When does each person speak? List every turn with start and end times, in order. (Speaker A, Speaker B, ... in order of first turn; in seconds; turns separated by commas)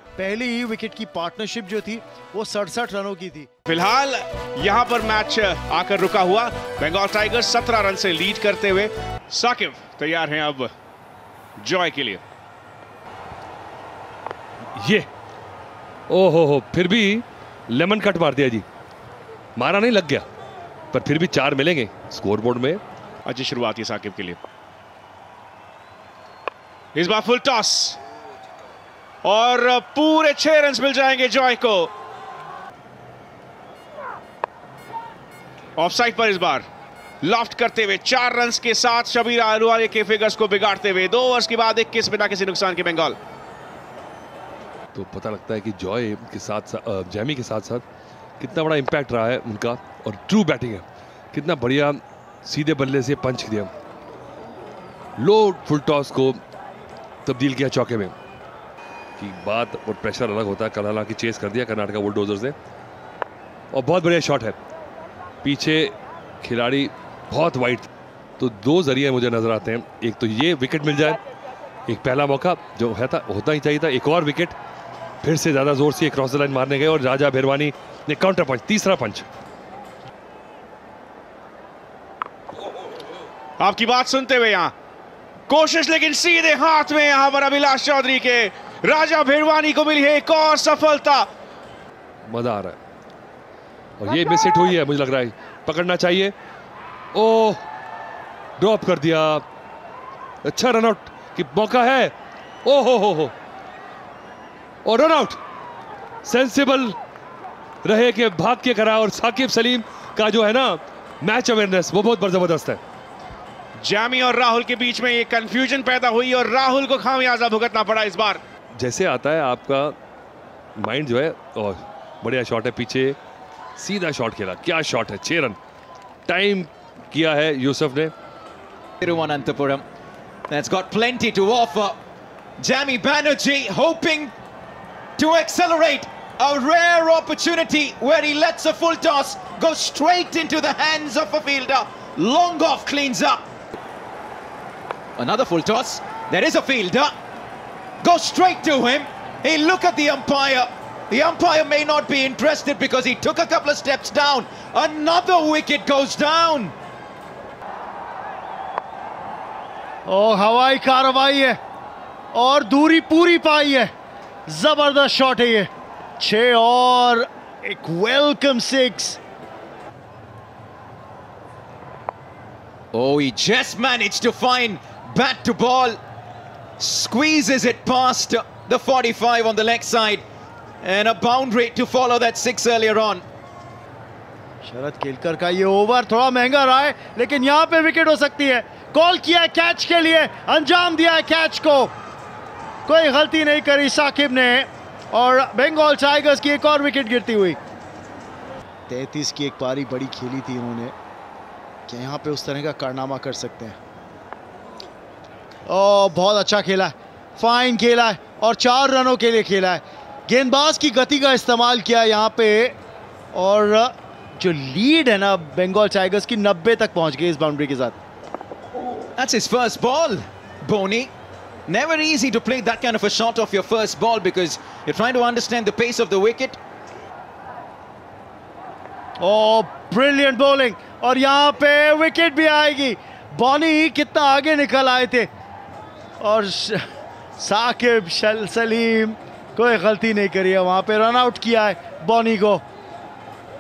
Speaker A: 0.2-3.5, Speaker B: 3.7-10.7, Speaker B: 11.6-12.2, Speaker C: 14.8-15.1, Speaker C: 16.1-18.6, Speaker C: 19.6-20.3, Speaker C: 20.9-22.8, Speaker B: 23.3-24.4, Speaker B: 26.9-28.0, Speaker B: 29.2-31.9, Speaker B: 35.8-36.7, Speaker B: 37.2-43.2, Speaker C: 44.9-47.8, Speaker C: 48.4-53.7, Speaker C: 55.2-56.4, Speaker C: 57.2-58.1, Speaker C: 59.2-62.6, Speaker C: 63.7-64.6, Speaker C: 65.4-67.9, Speaker C: 68.4-71.2, Speaker C: 71.9-74.6, Speaker C: 75.2-79.3, Speaker B: 83.6-84.7, Speaker B: 85.5-91.3, Speaker C: 92.2-92.8, Speaker C: 94.0-96.3, Speaker C: 97.1-97.7, Speaker C: 98.6-99.5, Speaker C: 100.4-103.3, Speaker C: 104.8-105.4, Speaker C: 106.2-107.0, Speaker C: 107.8-112.8, Speaker B: 113.8-118.4, Speaker C: 118.7-120.0, Speaker C: 120.8-123.2, Speaker C: 123.8-125.6, Speaker C: 126.3-128.1, Speaker D: 129.0-129.8, Speaker D: 130.5-132.0, Speaker D: 132.6-134.3, Speaker D: 135.2-143.5, Speaker D: 145.2-147.2, Speaker D: 148.0-156.8, Speaker A: 160.1-161.6, Speaker A: 162.3-163.9, Speaker A: 164.5-169.2, Speaker D: 172.9-176.0, Speaker D: 176.8-180.2, Speaker D: 180.8-183.2, Speaker A: 184.6-191.9, Speaker A: 192.9-197.6, Speaker A: 198.9-200.9, Speaker A: 201.9-203.8, Speaker A: 205.7-212.8, Speaker A: 213.3-218.0, Speaker D: 219.2-221.1, Speaker D: 221.7-226.6, Speaker A: 229.2-235.3, Speaker A: 236.2-236.9, Speaker A: 237.4-242.6